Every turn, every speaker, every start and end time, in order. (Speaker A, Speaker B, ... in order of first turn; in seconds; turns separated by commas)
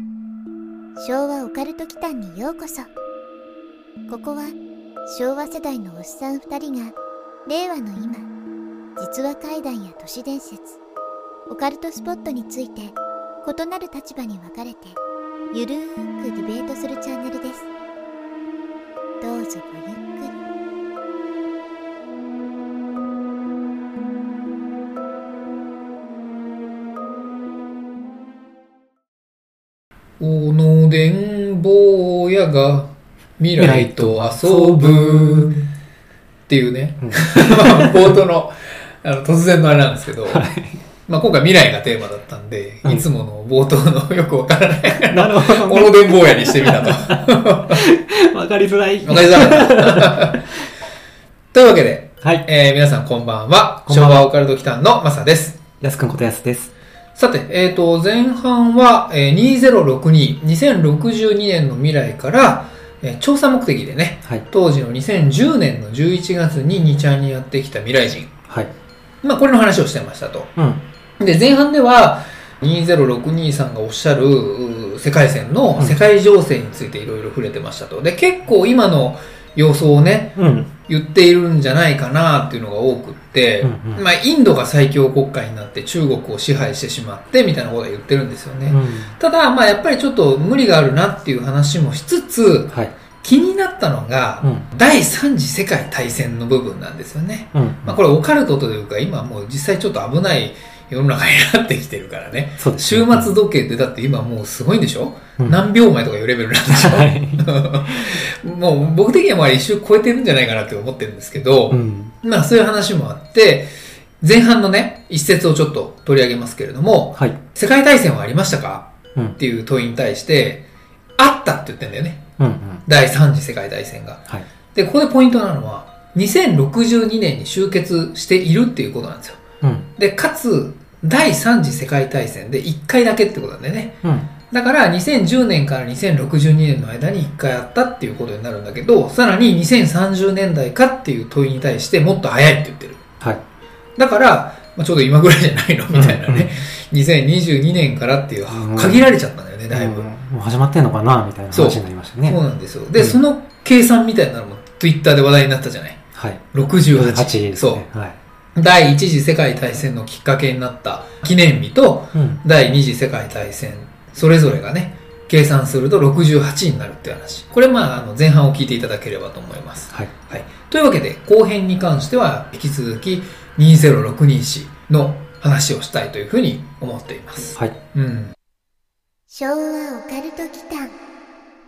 Speaker A: 1.0-2.9, Speaker A: 4.1-8.3, Speaker A: 9.0-10.8, Speaker A: 11.5-15.0, Speaker A: 15.5-17.7, Speaker A: 19.2-20.4, Speaker B: 30.2-35.6, Speaker C: 33.6-35.6, Speaker B: 36.5-40.5, Speaker C: 37.0-38.2, Speaker C: 40.3-40.8, Speaker B: 41.1-47.8, Speaker C: 45.0-50.4, Speaker B: 49.0-50.4, Speaker B: 51.5-55.6, Speaker C: 53.9-54.3, Speaker C: 55.8-56.7, Speaker B: 57.2-68.4, Speaker B: 69.2-70.5, Speaker C: 70.6-70.8, Speaker B: 71.2-113.7, Speaker C: 80.4-80.7, Speaker C: 83.6-84.0, Speaker C: 88.7-89.1, Speaker C: 97.5-98.0, Speaker C: 102.6-103.3, Speaker C: 106.7-108.2, Speaker C: 111.7-112.1, Speaker B: 114.2-120.6, Speaker B: 121.2-122.3, Speaker C: 122.4-122.8, Speaker B: 122.9-124.2, Speaker B: 124.7-129.4, Speaker C: 129.6-129.9, Speaker B: 130.0-133.9, Speaker C: 134.0-134.3, Speaker B: 134.5-143.1, Speaker B: 144.0-150.1, Speaker C: 145.9-146.6, Speaker C: 148.5-149.1, Speaker C: 149.7-152.4, Speaker B: 151.5-156.0, Speaker C: 156.2-156.4, Speaker B: 156.5-157.8, Speaker C: 156.9-158.2, Speaker B: 158.6-178.3, Speaker C: 162.2-162.4, Speaker A: 179.3-181.0